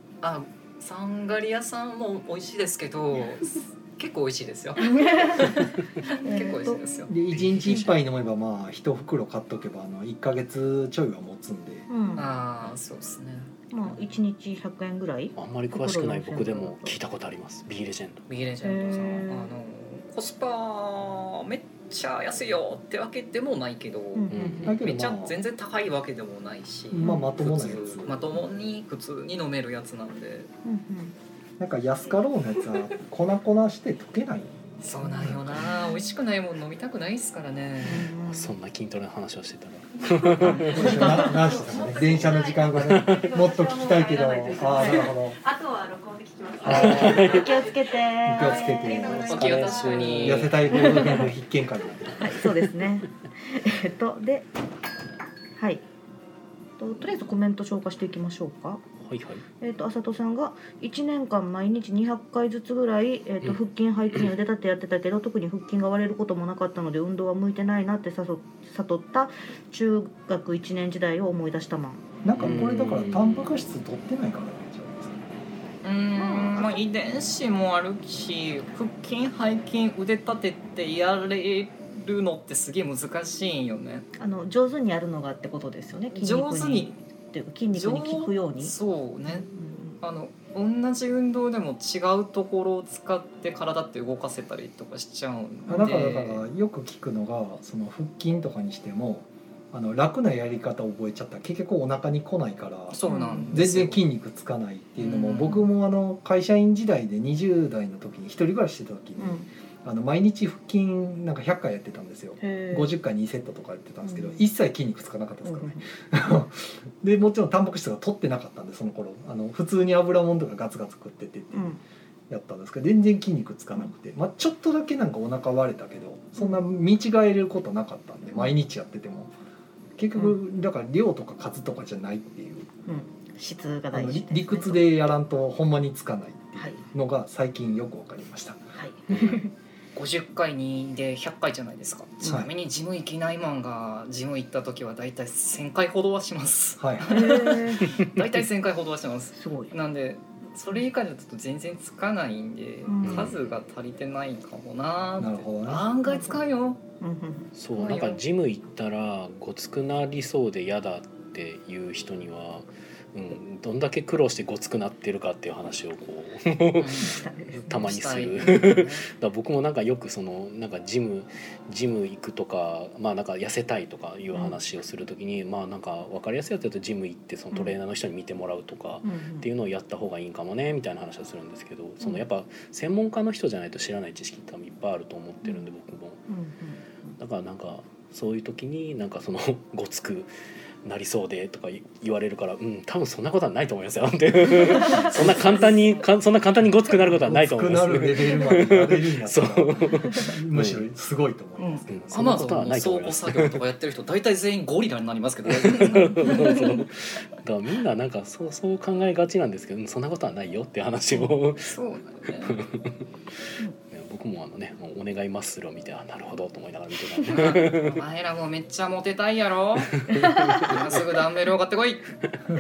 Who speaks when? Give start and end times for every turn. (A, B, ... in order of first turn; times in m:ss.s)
0:00.2-0:07.1 A
0:04.8-0:06.8 B
0:07.1-0:11.9 C
0:07.3-0:07.9 D
0:11.9-0:12.3 B
0:12.2-0:13.5 A
0:13.7-0:17.0 B
0:15.4-0:18.2 D
0:18.3-0:30.5 A
0:18.6-0:19.6 B
0:24.2-0:24.7 B
0:24.3-0:24.8 D
0:24.6-0:25.4 C
0:26.9-0:28.3 C
0:27.0-0:27.3 B
0:30.6-0:31.1 B
0:31.6-0:35.6 C
0:34.8-0:38.1 A
0:37.8-0:38.6 B
0:38.2-0:41.3 D
0:40.1-0:50.2 E
0:40.4-0:45.4 C
0:40.4-0:41.3 B
0:40.6-0:41.2 A
0:42.7-0:43.3 D
0:46.6-0:47.5 D
0:46.6-0:47.3 C
0:46.7-0:49.0 B
0:48.2-0:49.6 C
0:49.1-0:50.8 A
0:49.1-0:51.3 D
0:50.2-0:52.4 C
0:52.2-0:54.5 B
0:55.6-0:55.8 B
0:56.8-0:58.8 B
0:59.0-0:59.4 D
0:59.6-1:12.1 B
1:12.2-1:15.2 C
1:12.4-1:13.6 D
1:15.8-1:24.1 A
1:24.2-1:28.8 B
1:26.1-1:27.0 A
1:27.7-1:29.5 A
1:29.3-1:30.0 B
1:30.0-1:36.4 A
1:35.7-1:43.0 C
1:35.7-1:35.9 B
1:42.9-1:44.1 A
1:43.1-1:43.6 B
1:43.5-2:09.3 C
1:45.0-1:45.6 A
1:49.2-1:49.5 B
1:52.4-1:53.0 B
1:54.0-1:54.4 B
1:55.4-1:55.8 B
2:01.5-2:01.8 B
2:10.0-2:12.7 C
2:12.9-2:14.9 B
2:13.9-2:19.3 C
2:16.6-2:16.8 B
2:18.7-2:19.5 B
2:19.1-2:19.4 D
2:20.0-2:36.8 A
2:22.2-2:22.5 C
2:26.8-2:27.2 C
2:27.1-2:27.9 B
2:29.4-2:29.8 B
2:32.9-2:33.3 B
2:33.0-2:33.4 D
2:35.2-2:35.9 C
2:36.1-2:36.4 B
2:37.0-2:37.5 B
2:37.6-3:06.2 D
2:37.7-2:38.2 A
2:46.8-2:49.1 A
2:47.0-2:47.7 B
2:54.3-2:54.6 B
2:57.5-2:57.8 B
2:59.0-2:59.5 B
3:05.4-3:05.7 B
3:06.3-3:07.2 B
3:07.2-3:10.3 D
3:10.8-3:20.8 D
3:14.8-3:15.1 B
3:14.8-3:15.7 A
3:15.1-3:15.6 C
3:17.0-3:22.5 C
3:21.6-3:21.8 B
3:21.9-3:23.6 D
3:22.1-3:26.7 A
3:25.5-3:31.8 D
3:25.9-3:26.8 B
3:31.1-3:32.6 A
3:32.5-3:33.1 D
3:33.9-3:38.0 D
3:37.2-3:42.2 A
3:40.0-3:40.8 D